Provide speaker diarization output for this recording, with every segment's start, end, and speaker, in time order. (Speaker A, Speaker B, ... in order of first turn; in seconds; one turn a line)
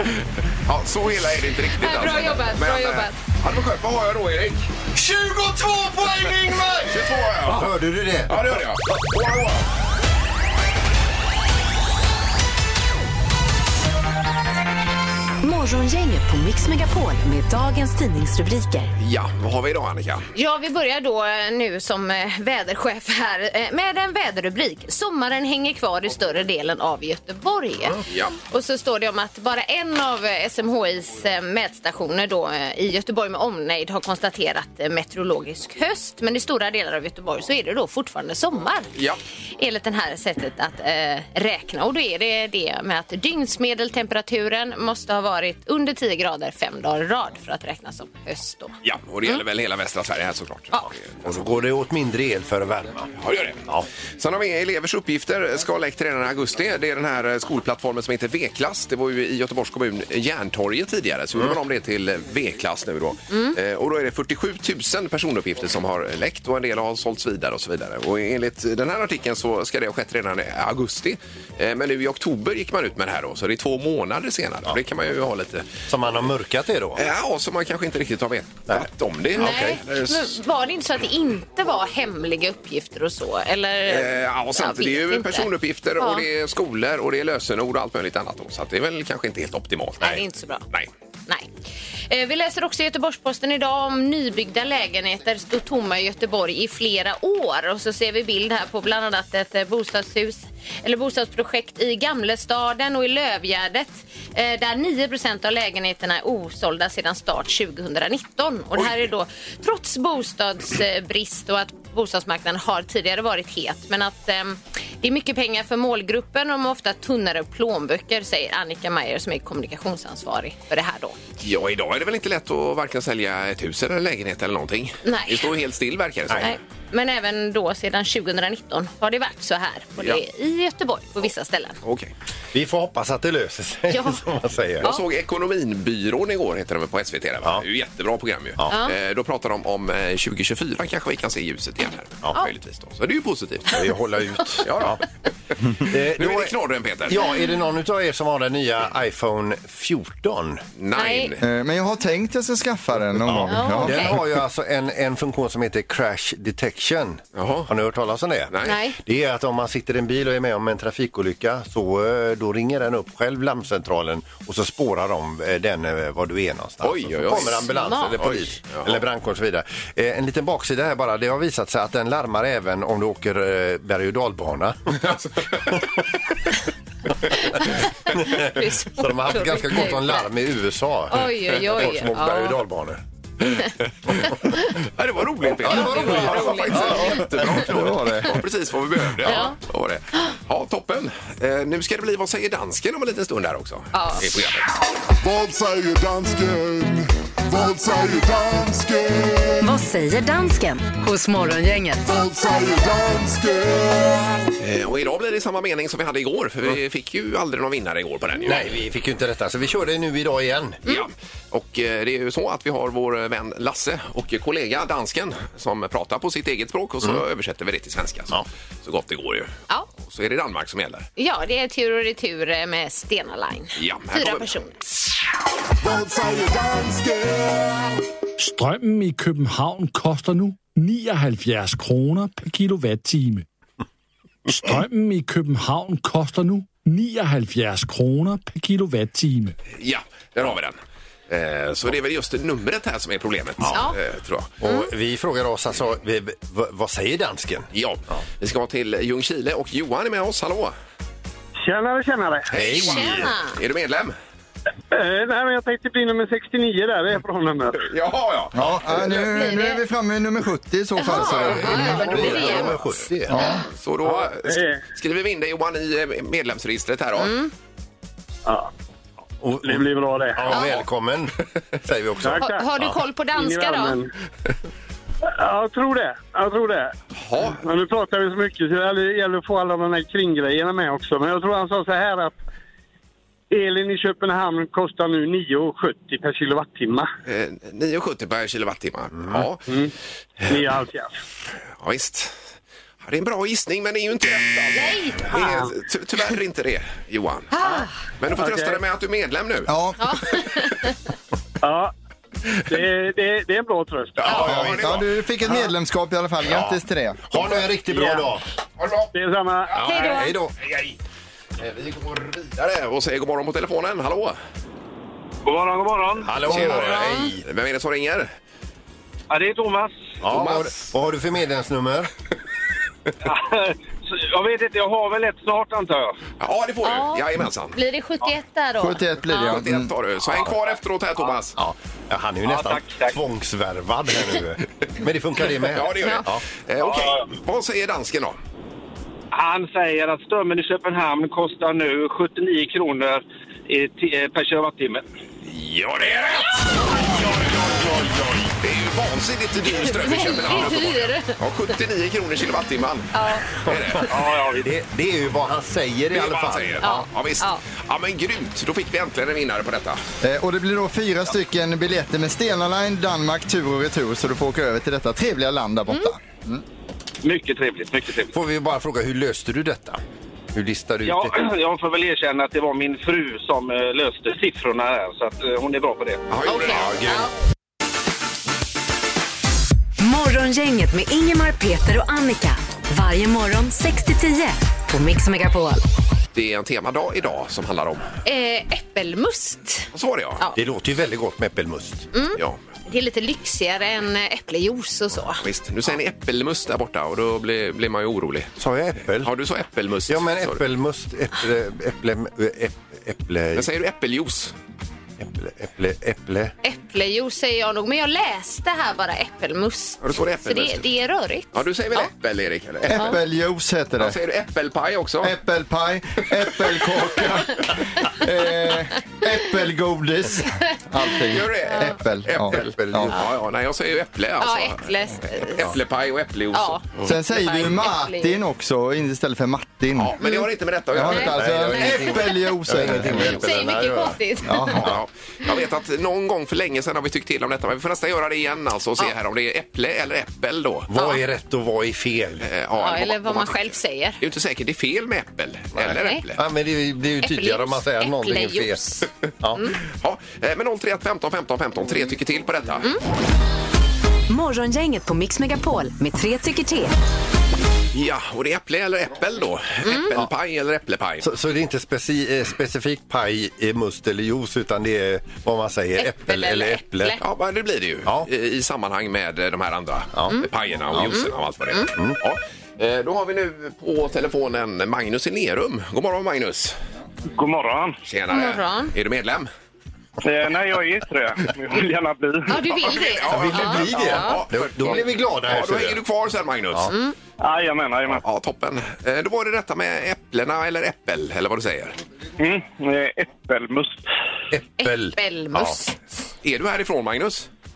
Speaker A: 0.7-4.7
Speaker B: 1.8-3.1
Speaker C: 4.9-8.6
Speaker A: 6.9-7.8
Speaker A: 8.3-9.7
Speaker D: 15.4-18.9
Speaker A: 19.0-20.3
Speaker B: 20.3-38.9
Speaker A: 28.1-28.3
Speaker A: 38.9-39.2
Speaker B: 39.6-48.7
Speaker A: 48.8-51.4
Speaker C: 51.2-53.1
Speaker A: 53.2-53.6
Speaker A: 54.2-75.8
Speaker B: 63.3-63.5
Speaker C: 75.9-77.0
Speaker A: 77.0-80.4
Speaker B: 79.4-86.2
Speaker C: 79.4-79.7
Speaker A: 83.9-90.9
Speaker B: 90.0-90.6
Speaker B: 92.1-121.2
Speaker A: 121.4-126.5
Speaker B: 125.0-125.5
Speaker B: 126.4-131.8
Speaker A: 131.8-132.1
Speaker C: 132.5-134.9
Speaker B: 133.9-134.2
Speaker A: 134.8-143.8
Speaker B: 138.7-138.9
Speaker C: 143.7-145.0
Speaker A: 144.6-145.0
Speaker C: 145.7-146.5
Speaker A: 145.8-147.2
Speaker C: 147.1-150.6
Speaker A: 150.8-151.4
Speaker B: 150.9-151.3
Speaker E: 151.4-154.2
Speaker C: 153.2-175.1
Speaker B: 153.5-154.1
Speaker A: 157.3-157.7
Speaker A: 158.5-158.8
Speaker B: 158.6-159.0
Speaker A: 166.8-169.0
Speaker B: 167.6-168.2
Speaker A: 175.0-175.8
Speaker B: 177.4-180.3
Speaker C: 178.1-183.0
Speaker B: 181.1-182.6
Speaker A: 184.8-194.7
Speaker C: 185.4-187.2
Speaker B: 185.7-187.3
Speaker E: 186.9-188.4
Speaker B: 189.2-189.6
Speaker B: 193.9-194.4
Speaker F: 195.2-199.6
Speaker D: 199.6-202.1
Speaker F: 202.0-204.5
Speaker A: 204.6-208.7
Speaker C: 208.4-210.8
Speaker A: 210.8-221.1
Speaker B: 221.2-224.8
Speaker A: 223.8-224.5
Speaker F: 225.8-227.9
Speaker G: 228.4-233.4
Speaker G: 234.5-239.6
Speaker A: 239.7-240.8
Speaker A: 241.3-244.5
Speaker B: 243.7-244.0
Speaker C: 244.6-248.2
Speaker B: 244.6-244.9
Speaker A: 247.7-250.7
Speaker H: 251.6-252.5
Speaker C: 252.5-253.3
Speaker A: 252.5-254.2
Speaker B: 252.6-253.6
Speaker H: 254.9-257.8
Speaker A: 257.8-258.7
Speaker E: 258.5-262.7
Speaker B: 259.1-259.8
Speaker B: 261.0-262.8
Speaker C: 261.2-263.4
Speaker E: 263.3-263.6
Speaker A: 263.7-267.3
Speaker H: 264.0-264.8
Speaker B: 267.2-267.5
Speaker H: 268.4-268.7
Speaker C: 269.4-273.0
Speaker H: 269.6-270.5
Speaker B: 270.5-270.8
Speaker H: 272.2-272.7
Speaker B: 272.4-274.0
Speaker H: 273.3-274.1
Speaker H: 275.2-276.9
Speaker A: 277.2-277.6
Speaker H: 277.4-282.3
Speaker H: 283.5-287.1
Speaker A: 287.2-289.6
Speaker C: 289.2-289.4
Speaker H: 289.7-289.9
Speaker H: 290.4-291.1
Speaker A: 291.8-292.4
Speaker A: 293.0-297.5
Speaker B: 294.7-295.4
Speaker H: 295.3-295.7
Speaker B: 297.5-297.9
Speaker H: 297.6-298.8
Speaker A: 298.2-299.7
Speaker E: 299.7-300.2
Speaker B: 300.0-301.0
Speaker H: 301.6-301.9
Speaker H: 302.7-304.4
Speaker A: 304.2-305.1
Speaker C: 304.2-305.0
Speaker E: 304.3-307.4
Speaker C: 306.4-306.8
Speaker C: 307.3-308.4
Speaker H: 307.9-308.3
Speaker A: 308.8-309.1
Speaker H: 309.1-309.9
Speaker C: 309.7-310.5
Speaker B: 309.8-310.3
Speaker A: 310.6-310.9
Speaker A: 311.6-314.4
Speaker H: 315.4-316.5
Speaker C: 316.2-317.4
Speaker A: 316.4-318.3
Speaker B: 316.8-317.3
Speaker H: 319.3-320.0
Speaker C: 320.2-322.1
Speaker A: 320.3-320.9
Speaker H: 323.2-326.1
Speaker A: 326.4-327.8
Speaker B: 326.8-329.6
Speaker E: 328.8-329.9
Speaker A: 329.3-331.6
Speaker C: 331.6-336.4
Speaker H: 332.4-333.2
Speaker A: 335.6-338.4
Speaker B: 336.0-336.2
Speaker H: 339.3-345.0
Speaker A: 345.4-347.5
Speaker A: 348.6-354.1
Speaker B: 349.8-351.4
Speaker B: 353.1-353.5
Speaker C: 353.7-354.0
Speaker H: 354.1-354.7
Speaker C: 354.6-357.0
Speaker A: 356.1-360.0
Speaker B: 356.8-357.6
Speaker E: 360.2-366.6
Speaker H: 367.2-368.3
Speaker C: 368.3-370.0
Speaker C: 370.5-371.4
Speaker H: 371.0-376.2
Speaker A: 376.3-377.0
Speaker B: 376.4-377.3
Speaker C: 376.6-377.2
Speaker D: 380.0-385.8
Speaker A: 386.3-388.1
Speaker B: 388.2-390.6
Speaker A: 389.9-390.4
Speaker C: 390.5-392.1
Speaker B: 392.1-395.4
Speaker A: 395.4-398.6
Speaker C: 398.6-399.3
Speaker A: 399.1-400.6
Speaker C: 400.1-403.7
Speaker A: 403.5-404.5
Speaker C: 405.2-406.5
Speaker B: 406.6-412.1
Speaker A: 410.0-410.8
Speaker A: 411.5-413.2
Speaker E: 412.8-414.2
Speaker A: 414.0-415.3
Speaker E: 415.2-423.1
Speaker A: 421.3-427.1
Speaker B: 421.7-421.9
Speaker C: 422.5-423.1
Speaker B: 424.4-425.7
Speaker B: 426.5-428.4
Speaker E: 427.0-430.2
Speaker A: 429.9-431.6
Speaker E: 430.9-433.4
Speaker B: 431.1-432.4
Speaker C: 431.3-434.2
Speaker B: 433.2-434.8
Speaker E: 434.4-435.0
Speaker A: 434.8-440.9
Speaker C: 440.9-442.5
Speaker B: 440.9-441.2
Speaker A: 442.4-446.4
Speaker B: 442.8-444.2
Speaker C: 445.8-448.8
Speaker B: 445.9-446.2
Speaker B: 447.2-449.8
Speaker A: 449.9-452.9
Speaker D: 454.3-456.9
Speaker A: 457.9-461.3
Speaker B: 459.8-460.1
Speaker C: 461.2-467.1
Speaker B: 466.0-467.2
Speaker A: 467.2-476.8
Speaker C: 470.9-471.2
Speaker B: 471.1-471.9
Speaker H: 477.4-477.9
Speaker A: 478.0-479.5
Speaker B: 478.3-478.9
Speaker H: 480.2-482.4
Speaker B: 482.5-484.4
Speaker A: 482.6-486.9
Speaker C: 483.3-486.0
Speaker B: 486.9-487.1
Speaker H: 487.4-488.1
Speaker A: 488.1-491.9
Speaker H: 492.4-493.6
Speaker C: 494.5-495.8
Speaker B: 494.8-496.0
Speaker A: 496.4-497.5